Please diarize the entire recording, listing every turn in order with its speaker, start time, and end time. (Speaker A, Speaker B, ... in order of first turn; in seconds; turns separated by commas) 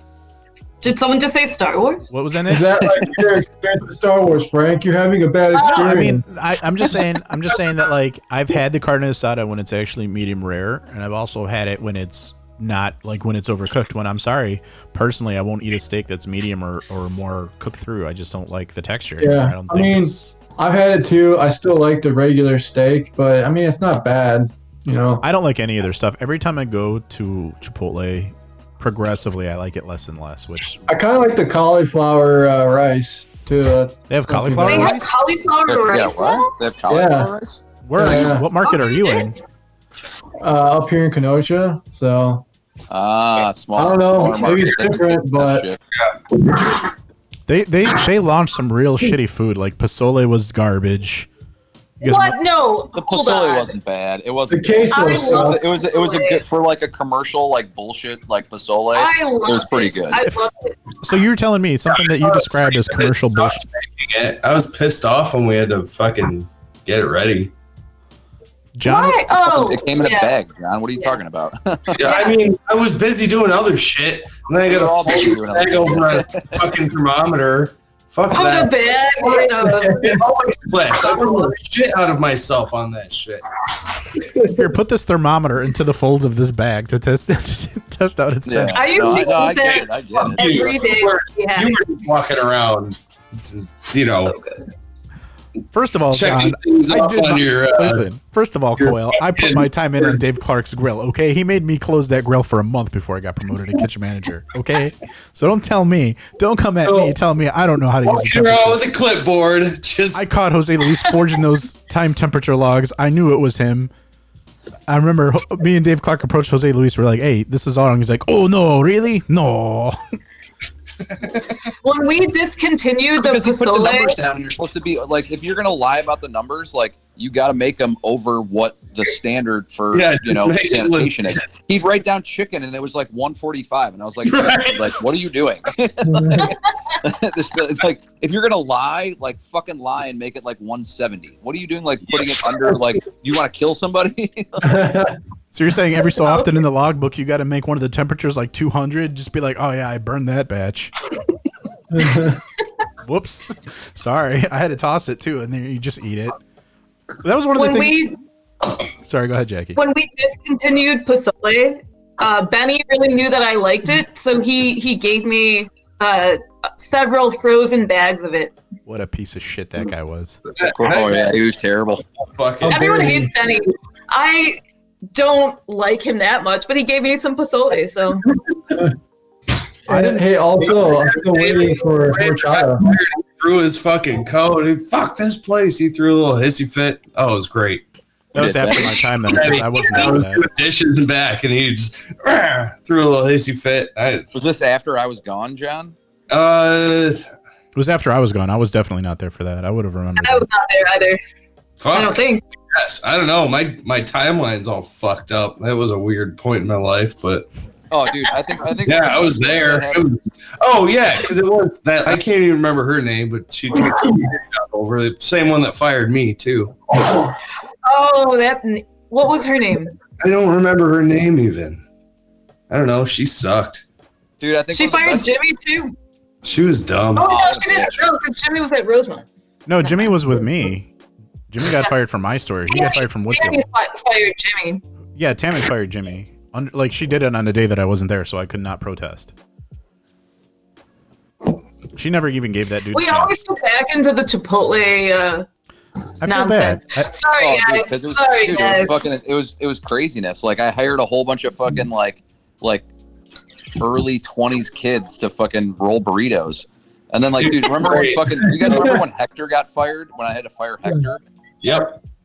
Speaker A: 0.8-2.1, Speaker B: 2.1-3.0, Speaker C: 2.5-6.2, Speaker A: 5.5-5.9, Speaker B: 5.6-20.3, Speaker C: 19.2-25.2, Speaker B: 25.2-30.9, Speaker C: 30.9-35.0, Speaker B: 34.1-35.2, Speaker A: 34.6-36.5, Speaker D: 35.7-37.6, Speaker C: 36.9-37.3, Speaker B: 37.8-39.4, Speaker C: 37.9-38.5, Speaker A: 38.6-39.3, Speaker C: 40.4-42.5, Speaker D: 42.9-45.8, Speaker C: 43.7-45.7, Speaker A: 44.2-44.6, Speaker B: 47.5-51.3, Speaker B: 52.0-52.4, Speaker A: 52.0-53.8, Speaker D: 52.9-60.2, Speaker C: 54.5-55.6, Speaker A: 54.9-56.4, Speaker A: 58.9-60.8, Speaker B: 61.0-63.6, Speaker E: 62.0-67.5, Speaker B: 68.8-69.3, Speaker A: 68.8-70.4, Speaker D: 69.4-72.0, Speaker E: 71.9-83.4, Speaker A: 72.0-72.4, Speaker D: 74.7-76.7, Speaker A: 78.3-80.2, Speaker A: 81.0-81.5, Speaker B: 84.5-88.9, Speaker D: 88.5-90.8, Speaker A: 88.7-91.8, Speaker E: 90.2-94.3, Speaker A: 94.2-94.6, Speaker B: 95.7-108.8, Speaker E: 96.1-98.0, Speaker E: 98.8-100.1, Speaker E: 106.8-107.1, Speaker E: 108.0-110.3, Speaker B: 110.1-113.9, Speaker B: 114.9-120.0, Speaker A: 121.8-124.2, Speaker D: 123.2-144.8, Speaker E: 129.9-131.3, Speaker E: 134.2-134.9, Speaker C: 136.1-136.5, Speaker E: 142.2-142.6, Speaker C: 144.6-145.2, Speaker B: 145.5-150.9, Speaker A: 146.2-146.5, Speaker C: 151.9-152.4, Speaker B: 153.0-156.3, Speaker B: 157.2-158.0, Speaker A: 157.5-158.2, Speaker B: 159.0-159.8, Speaker A: 159.8-168.6, Speaker B: 168.9-170.4, Speaker E: 170.6-171.4, Speaker D: 170.6-172.0, Speaker E: 172.3-172.9, Speaker C: 172.6-173.3, Speaker A: 172.7-174.6, Speaker A: 175.1-178.2, Speaker C: 179.9-182.9, Speaker B: 179.9-180.2, Speaker E: 180.7-187.8, Speaker B: 188.3-190.4, Speaker D: 188.4-188.9, Speaker E: 189.2-194.3, Speaker D: 194.3-195.9, Speaker E: 196.3-197.2, Speaker B: 197.7-200.4, Speaker A: 200.2-201.2, Speaker E: 201.8-202.2, Speaker A: 201.9-202.4, Speaker E: 202.7-207.5, Speaker D: 207.9-210.1, Speaker E: 208.8-216.8, Speaker A: 217.8-219.9, Speaker E: 220.2-221.8, Speaker E: 222.7-223.8, Speaker D: 224.4-225.3, Speaker A: 224.7-225.9, Speaker E: 226.4-227.4, Speaker A: 227.1-229.2, Speaker D: 227.2-228.0, Speaker B: 229.7-230.9, Speaker B: 231.5-233.6, Speaker A: 232.7-234.8, Speaker B: 235.2-239.3, Speaker B: 241.9-243.4, Speaker A: 242.9-245.4, Speaker B: 246.2-247.1, Speaker A: 246.2-249.0, Speaker D: 247.3-252.8, Speaker D: 253.8-261.2, Speaker E: 257.4-259.0, Speaker E: 261.6-262.0